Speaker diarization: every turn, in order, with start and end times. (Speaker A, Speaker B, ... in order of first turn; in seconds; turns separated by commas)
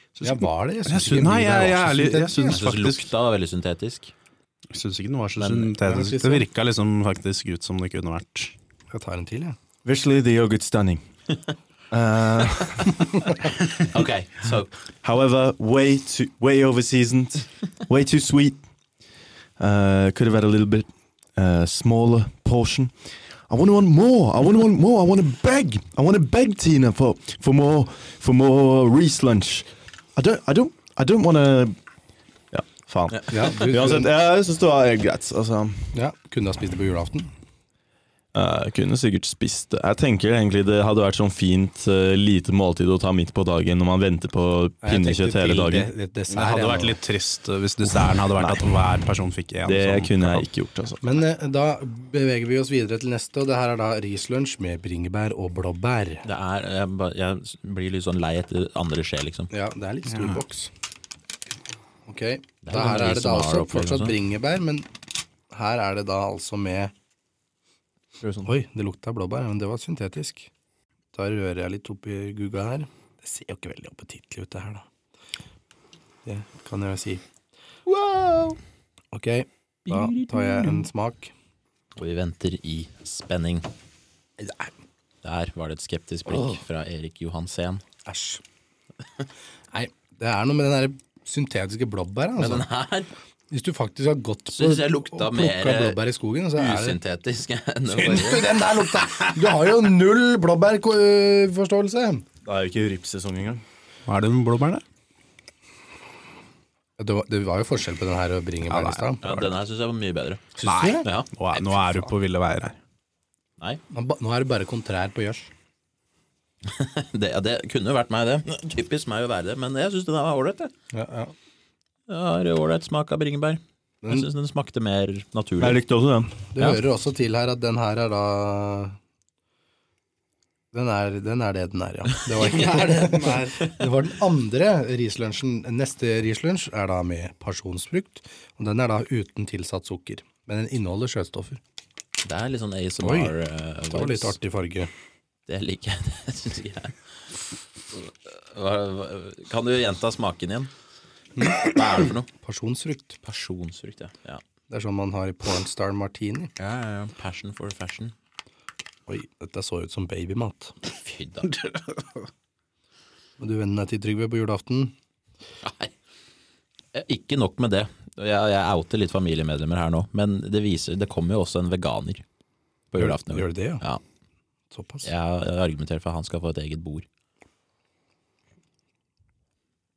Speaker A: 0.2-3.1, Speaker B: 0.2-2.6, Speaker C: 2.5-4.1, Speaker A: 4.7-8.5, Speaker C: 5.4-5.7, Speaker B: 5.8-6.5, Speaker B: 8.9-9.6, Speaker D: 9.8-11.0, Speaker D: 11.9-12.9, Speaker C: 13.8-14.7, Speaker D: 15.0-18.6, Speaker D: 19.6-22.9, Speaker D: 23.5-31.8, Speaker D: 32.5-36.0, Speaker C: 33.1-33.4, Speaker B: 33.3-34.1, Speaker B: 35.9-37.3, Speaker D: 38.3-45.9, Speaker B: 44.8-47.0, Speaker A: 46.3-50.5, Speaker D: 49.6-51.1, Speaker B: 51.0-56.2, Speaker C: 56.2-59.5, Speaker B: 59.5-60.7, Speaker A: 60.1-60.4, Speaker B: 62.1-64.9, Speaker C: 62.6-64.2, Speaker B: 65.5-66.9, Speaker B: 68.5-70.5, Speaker B: 71.1-74.8, Speaker B: 76.2-77.2, Speaker B: 79.1-81.3, Speaker C: 79.9-80.8, Speaker C: 82.0-83.7, Speaker B: 84.4-84.7, Speaker C: 85.2-87.8, Speaker B: 86.3-86.6, Speaker B: 88.0-88.4, Speaker B: 89.7-92.7, Speaker C: 92.4-93.1, Speaker B: 93.5-97.0, Speaker C: 94.5-96.0, Speaker C: 96.6-98.5, Speaker B: 97.9-102.2, Speaker D: 102.5-103.6, Speaker A: 104.1-104.8, Speaker B: 107.0-109.3, Speaker A: 108.7-109.4, Speaker C: 109.2-110.5, Speaker B: 110.6-111.1, Speaker A: 110.6-112.8, Speaker C: 111.0-111.7, Speaker B: 113.9-115.5, Speaker C: 116.7-120.7, Speaker B: 120.9-121.3, Speaker C: 122.1-125.8, Speaker D: 125.6-126.5, Speaker B: 126.5-129.0, Speaker B: 130.7-141.6, Speaker C: 132.3-133.8, Speaker C: 142.2-144.4, Speaker B: 143.0-143.3, Speaker B: 143.9-144.9, Speaker C: 145.5-147.0, Speaker C: 147.9-150.7, Speaker B: 151.4-151.8, Speaker C: 151.6-152.3, Speaker B: 152.3-153.2, Speaker C: 153.2-154.4, Speaker B: 154.7-156.5, Speaker C: 156.6-158.1, Speaker B: 159.1-160.8, Speaker C: 160.9-161.6, Speaker A: 161.6-162.0, Speaker B: 163.4-164.9, Speaker C: 165.6-165.9, Speaker C: 166.9-172.2, Speaker C: 172.9-174.0, Speaker B: 173.0-173.8, Speaker B: 174.7-175.1, Speaker C: 175.0-177.1